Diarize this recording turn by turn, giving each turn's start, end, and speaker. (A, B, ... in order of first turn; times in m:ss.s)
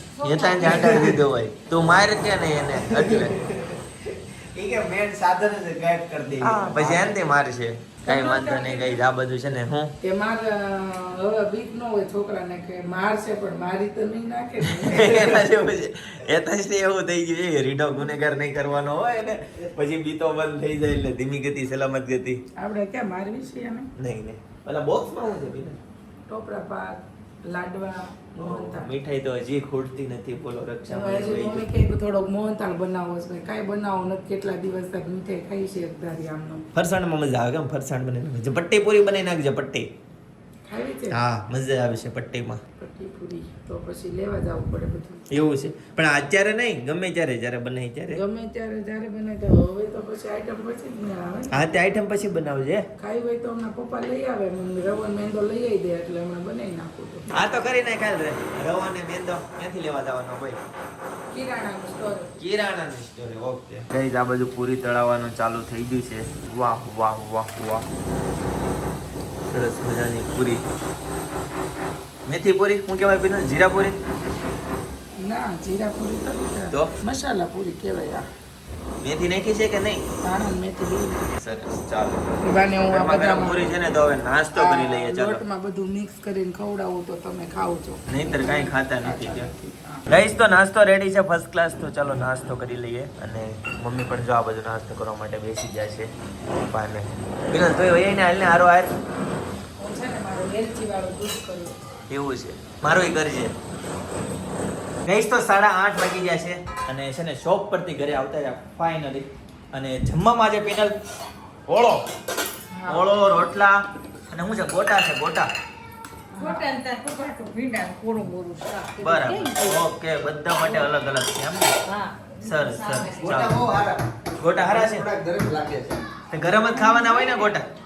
0:00.2-0:00.9 A
0:00.2-0:03.4 B
0:00.6-0:01.2 C
0:02.7-0:07.2 C
0:06.4-0:06.8 D
0:06.4-0:09.9 B
0:08.0-0:09.0 D
0:10.0-0:15.4 D
0:14.8-0:22.4 B
0:22.6-0:23.9 D
0:24.0-0:25.8 B
0:26.3-0:28.9 D
0:28.4-0:31.6 B
0:30.9-0:36.7 D
0:36.8-0:39.9 B
0:40.7-0:41.2 D
0:41.1-0:42.6 B
0:42.8-0:45.2 D
0:45.3-0:48.2 B
0:48.1-0:51.7 D
0:51.5-0:52.8 B
0:53.0-0:57.3 D
0:57.3-1:00.6 B
1:01.3-1:02.4 D
1:02.4-1:07.9 B
1:09.5-1:10.6 B
1:12.3-1:14.0 B
1:15.2-1:18.3 D
1:19.0-1:20.0 B
1:20.2-1:21.3 D
1:21.3-1:25.4 B
1:22.4-1:23.7 D
1:24.5-1:30.0 D
1:28.1-1:29.5 B
1:30.1-1:36.1 B
1:36.7-1:38.9 B
1:39.8-1:41.8 D
1:42.1-1:43.5 B
1:45.1-1:51.0 B
1:51.7-1:52.0 B
1:52.7-1:53.1 D
1:52.9-1:55.5 B
1:56.3-1:56.7 D
1:56.4-1:59.8 A
1:59.0-2:01.7 B
2:01.8-2:03.4 A
2:02.4-2:03.6 B
2:03.2-2:06.1 C
2:04.4-2:05.1 B
2:06.3-2:07.7 B